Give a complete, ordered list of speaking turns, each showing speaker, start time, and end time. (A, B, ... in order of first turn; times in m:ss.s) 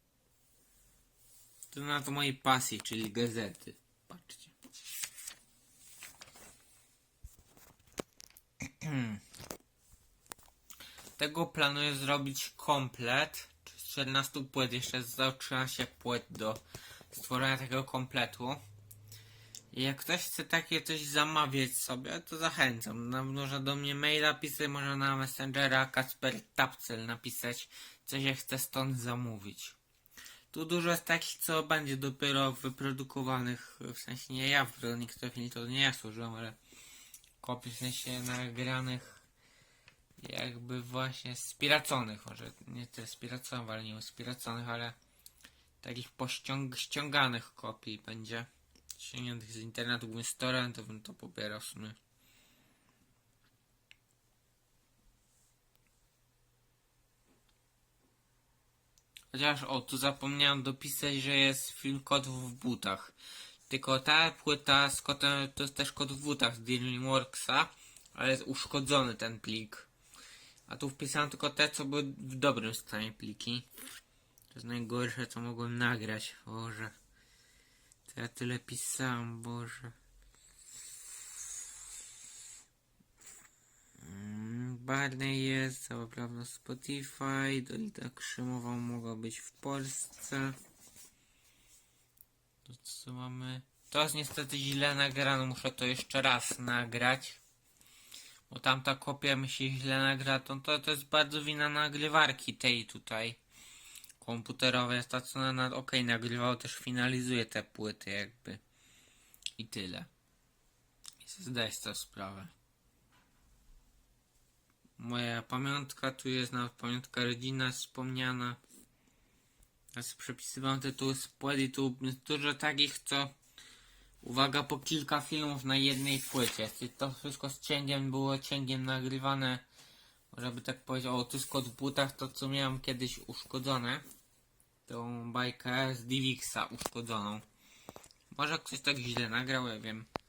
0:01.7-0:04.5 A
0:08.6-0:09.2 A
0:11.2-0:18.6 A
0:19.7-0:29.8 A
0:30.5-0:36.6 A
0:37.4-0:39.2 A
0:40.2-0:45.0 A
0:45.8-0:52.0 A
0:59.3-1:03.1 A
1:03.7-1:09.9 A
1:10.7-1:13.7 A
1:14.5-1:16.9 A
1:18.1-1:19.9 A
1:24.0-1:30.6 A
1:32.6-1:37.4 A
1:38.5-1:43.4 A
1:44.2-1:48.6 A
1:49.6-1:50.1 A
1:51.2-1:52.5 A
1:55.0-1:58.6 A
2:00.0-2:03.3 A
2:04.2-2:09.6 A
2:10.3-2:14.0 A
2:14.9-2:17.4 A
2:18.3-2:20.1 A